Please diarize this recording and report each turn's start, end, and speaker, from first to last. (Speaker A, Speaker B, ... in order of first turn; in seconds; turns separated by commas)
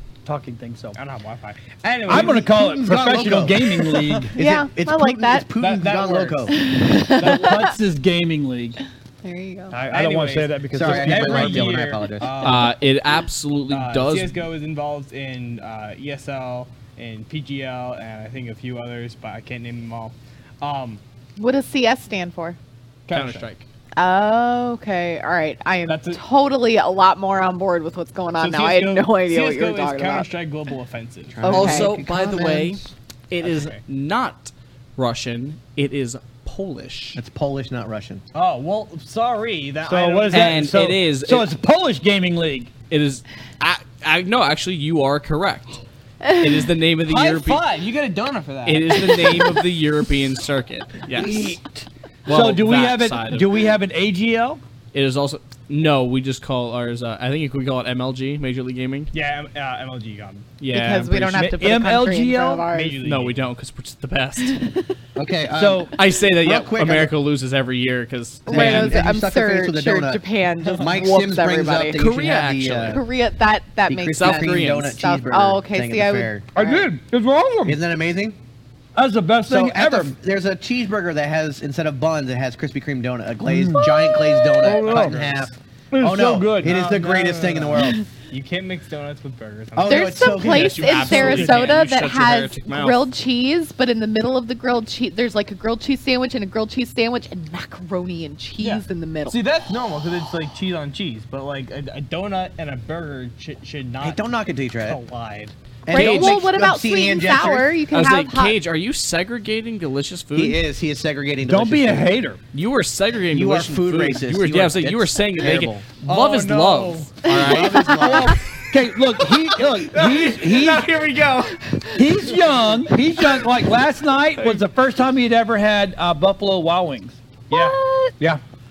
Speaker A: 0.2-1.0, Speaker B: 0.9-2.5, Speaker A: 2.1-4.3, Speaker C: 2.1-6.6, Speaker D: 4.4-5.5, Speaker B: 5.6-6.5, Speaker D: 6.5-7.8, Speaker A: 7.2-8.8, Speaker D: 9.2-9.8, Speaker A: 9.7-11.8, Speaker B: 9.9-12.8, Speaker C: 10.7-12.5, Speaker E: 12.4-14.4, Speaker B: 13.7-21.0, Speaker D: 21.4-22.6, Speaker B: 23.1-23.5, Speaker E: 23.1-23.6, Speaker D: 24.0-30.3, Speaker B: 25.9-26.2, Speaker B: 28.4-31.5, Speaker C: 31.3-32.9, Speaker D: 31.4-31.9, Speaker E: 31.5-37.2, Speaker B: 33.4-33.8, Speaker C: 37.2-38.2, Speaker B: 38.3-40.6, Speaker A: 39.9-42.7, Speaker E: 40.3-41.5, Speaker E: 42.9-45.8, Speaker D: 46.2-46.6, Speaker E: 46.4-47.7, Speaker B: 47.0-49.4, Speaker E: 48.6-51.6, Speaker D: 49.1-49.6, Speaker A: 51.1-54.6, Speaker E: 52.3-53.6, Speaker E: 54.9-59.1, Speaker B: 59.1-60.5, Speaker E: 60.6-61.4, Speaker D: 60.7-63.0, Speaker A: 61.3-62.7, Speaker B: 62.7-63.4, Speaker E: 63.0-64.6, Speaker D: 64.5-64.9, Speaker C: 65.2-67.1, Speaker A: 65.5-65.9, Speaker E: 66.0-69.0, Speaker D: 68.5-72.0, Speaker C: 68.5-73.0, Speaker E: 71.9-73.0, Speaker D: 72.9-76.9, Speaker C: 73.9-76.5, Speaker E: 74.1-75.0, Speaker A: 76.5-77.8, Speaker C: 77.6-78.4, Speaker A: 79.0-80.2, Speaker C: 79.5-88.0, Speaker A: 83.5-83.9, Speaker D: 83.8-84.7, Speaker A: 84.6-85.2, Speaker B: 84.6-85.5, Speaker A: 85.9-86.9, Speaker B: 86.6-90.2, Speaker D: 87.8-88.0, Speaker C: 89.8-91.6, Speaker D: 89.8-99.4, Speaker E: 90.3-93.1, Speaker B: 98.6-104.2, Speaker C: 104.0-105.0, Speaker B: 104.8-105.5, Speaker C: 105.9-107.8, Speaker E: 105.9-106.4, Speaker D: 105.9-108.6, Speaker E: 107.9-110.6, Speaker C: 110.3-112.1, Speaker A: 111.4-112.4, Speaker E: 112.5-118.2, Speaker C: 113.3-115.8, Speaker B: 116.0-117.2, Speaker D: 117.2-118.3, Speaker C: 117.3-118.4, Speaker A: 117.8-120.9, Speaker E: 119.3-121.7, Speaker D: 121.7-122.0, Speaker A: 122.0-128.4, Speaker B: 127.5-127.8, Speaker D: 127.5-128.1